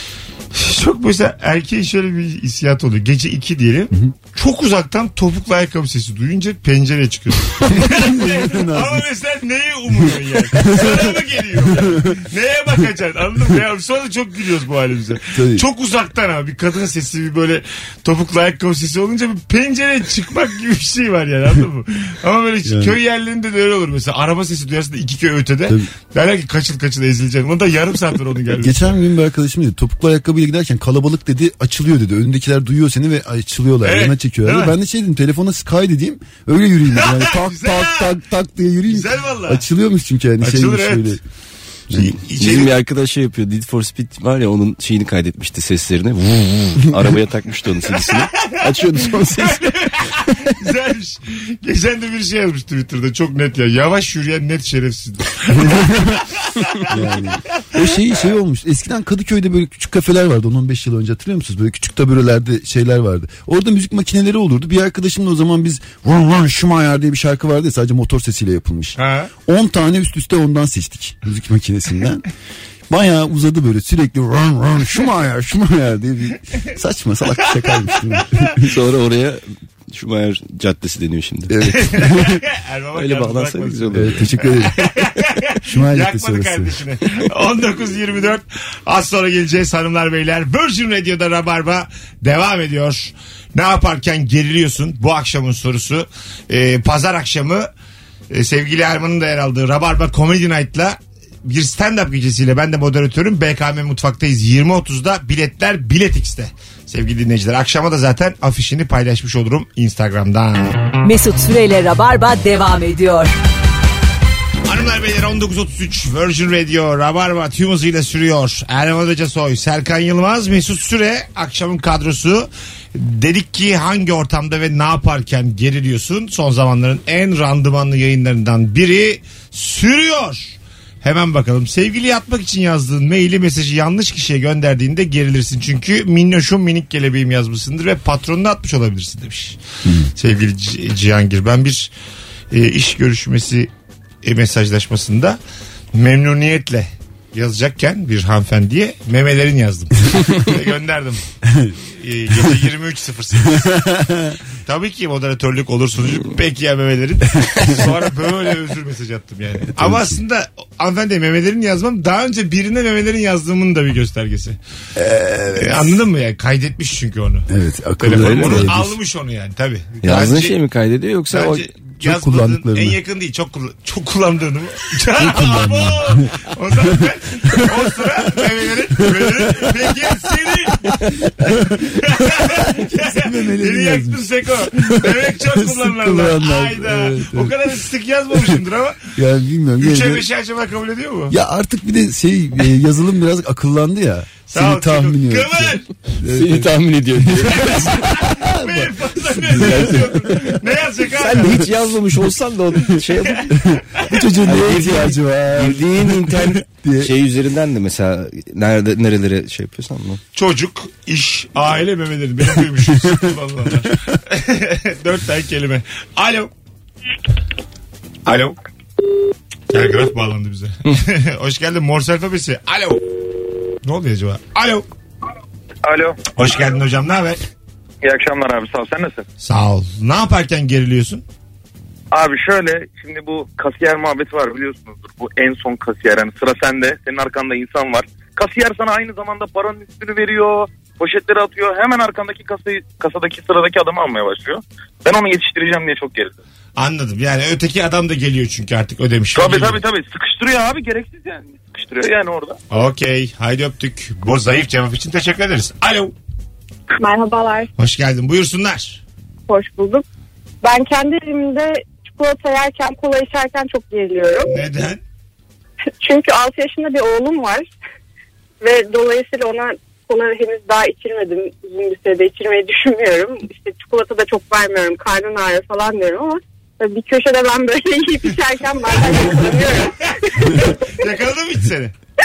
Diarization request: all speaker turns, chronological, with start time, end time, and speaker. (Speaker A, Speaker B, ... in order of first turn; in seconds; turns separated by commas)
Speaker A: 0.5-28.9, Speaker B: 7.6-9.0, Speaker B: 10.5-12.1, Speaker B: 15.3-15.7, Speaker B: 22.6-23.0, Speaker B: 28.5-41.2, Speaker A: 33.8-34.8, Speaker A: 37.0-38.1, Speaker A: 38.9-39.6, Speaker A: 40.4-41.2, Speaker A: 41.9-42.7, Speaker C: 42.4-50.5, Speaker A: 47.9-57.0, Speaker B: 55.6-56.2, Speaker B: 56.9-72.2, Speaker A: 69.0-69.3, Speaker B: 72.9-78.6, Speaker A: 77.6-78.5, Speaker C: 78.6-81.7, Speaker B: 81.5-82.4, Speaker A: 81.8-97.7, Speaker C: 83.0-84.3, Speaker B: 83.9-84.8, Speaker B: 85.7-86.8, Speaker A: 98.3-110.8, Speaker D: 111.0-113.3, Speaker A: 114.7-139.6, Speaker A: 140.2-141.9, Speaker A: 142.5-143.7, Speaker A: 144.2-145.4, Speaker A: 145.9-151.2, Speaker A: 151.9-153.8, Speaker B: 153.6-154.3, Speaker A: 154.7-164.6, Speaker B: 159.8-160.1, Speaker B: 165.0-166.0, Speaker A: 165.6-167.5, Speaker B: 167.5-168.9, Speaker A: 168.0-170.5, Speaker C: 168.1-168.7, Speaker C: 170.0-171.7, Speaker A: 171.3-180.9, Speaker B: 172.0-173.0, Speaker B: 175.2-176.3, Speaker B: 179.1-179.7, Speaker B: 181.4-187.6, Speaker A: 181.9-189.1, Speaker B: 189.2-190.2, Speaker A: 189.8-191.3, Speaker B: 191.3-198.9, Speaker A: 194.5-195.8, Speaker C: 196.2-197.9, Speaker A: 198.1-201.7, Speaker B: 199.5-200.2, Speaker C: 199.5-200.1, Speaker C: 201.2-203.5, Speaker B: 203.7-207.1, Speaker C: 204.4-210.2, Speaker A: 210.3-216.5, Speaker A: 218.3-218.6, Speaker A: 219.7-223.0, Speaker A: 223.8-224.9, Speaker E: 225.8-226.2, Speaker A: 226.4-227.4, Speaker E: 228.0-229.2, Speaker A: 229.4-231.2, Speaker E: 232.1-246.4, Speaker A: 246.8-249.8, Speaker E: 249.3-252.6, Speaker A: 252.7-256.1, Speaker F: 257.0-257.7, Speaker A: 257.8-259.0, Speaker F: 259.5-260.0, Speaker F: 260.6-264.5, Speaker A: 264.5-265.0, Speaker F: 266.0-267.7, Speaker F: 268.6-280.9, Speaker A: 280.4-281.9